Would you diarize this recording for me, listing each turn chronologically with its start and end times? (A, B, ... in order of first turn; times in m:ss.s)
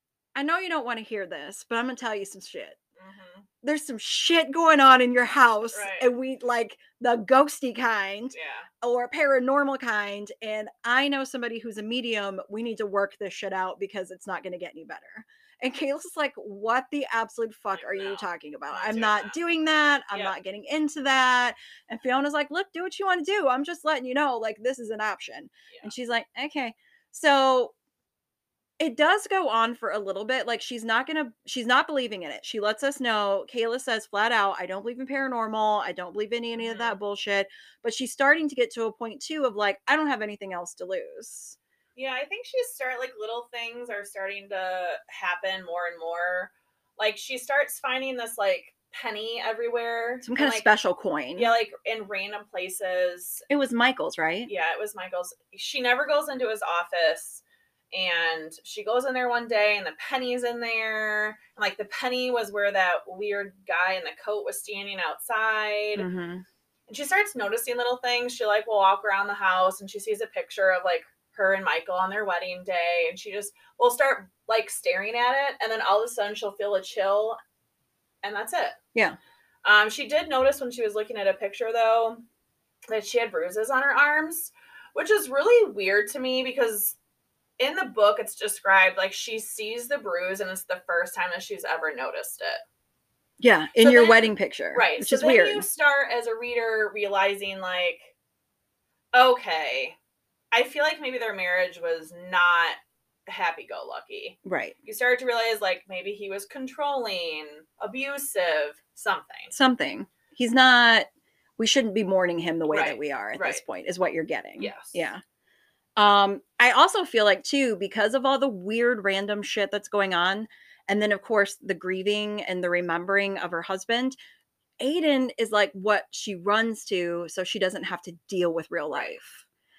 0:00.4-0:02.8 A
0:03.0-0:03.4 B
0:03.6-0:27.7 A
0:05.7-0:06.1 B
0:08.3-0:08.7 B
0:17.7-0:19.4 B
0:28.8-0:41.6 A
0:36.5-0:37.0 B
0:42.0-0:50.7 B
0:50.2-0:51.5 A
0:51.4-0:53.4 B
0:53.5-0:54.5 A
0:54.5-1:06.1 B
1:06.0-1:06.4 A
1:06.9-1:17.4 B
1:18.2-1:18.8 B
1:19.6-1:22.2 B
1:22.9-1:27.0 B
1:27.6-1:32.6 B
1:33.4-1:35.6 A
1:33.8-1:38.1 B
1:39.1-1:40.0 B
1:40.5-1:49.5 B
1:44.4-1:44.7 A
1:49.5-1:55.2 A
1:52.7-1:53.6 B
1:54.6-1:55.0 B
1:56.0-2:04.2 A
2:04.8-2:09.4 A